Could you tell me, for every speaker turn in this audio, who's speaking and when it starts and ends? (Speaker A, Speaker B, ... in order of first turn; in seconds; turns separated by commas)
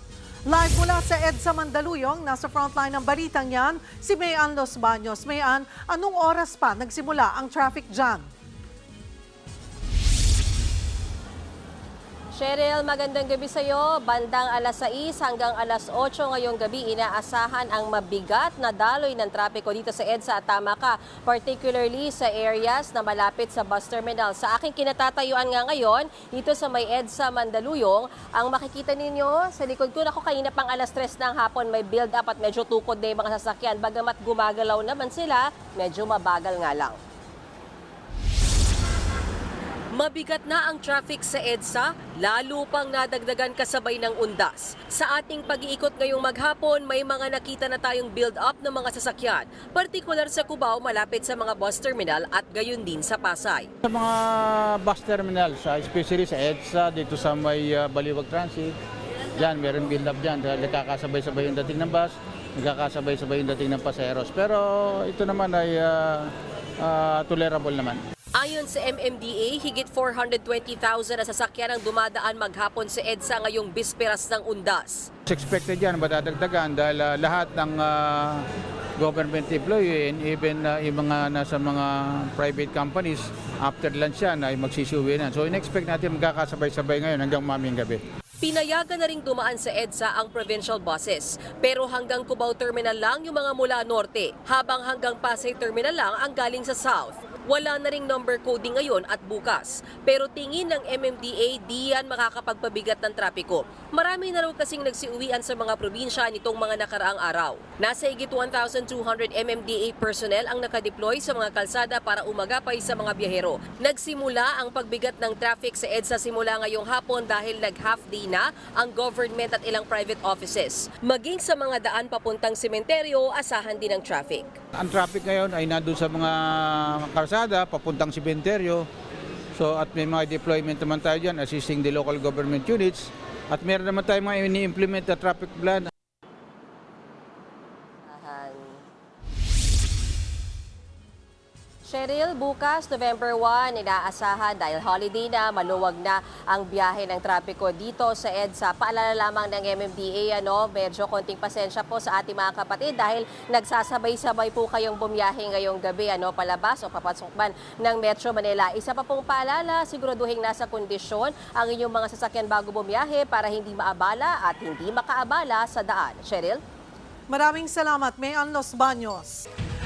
Speaker A: 0.5-8.3, Speaker B: 12.3-37.0, Speaker B: 39.9-53.7, Speaker C: 53.8-58.8, Speaker C: 59.3-68.0, Speaker B: 68.3-75.1, Speaker C: 75.3-78.5, Speaker C: 79.0-88.0, Speaker B: 88.4-124.6, Speaker C: 124.8-128.8, Speaker C: 129.5-135.9, Speaker B: 138.1-138.8, Speaker B: 141.8-166.6, Speaker A: 167.3-169.4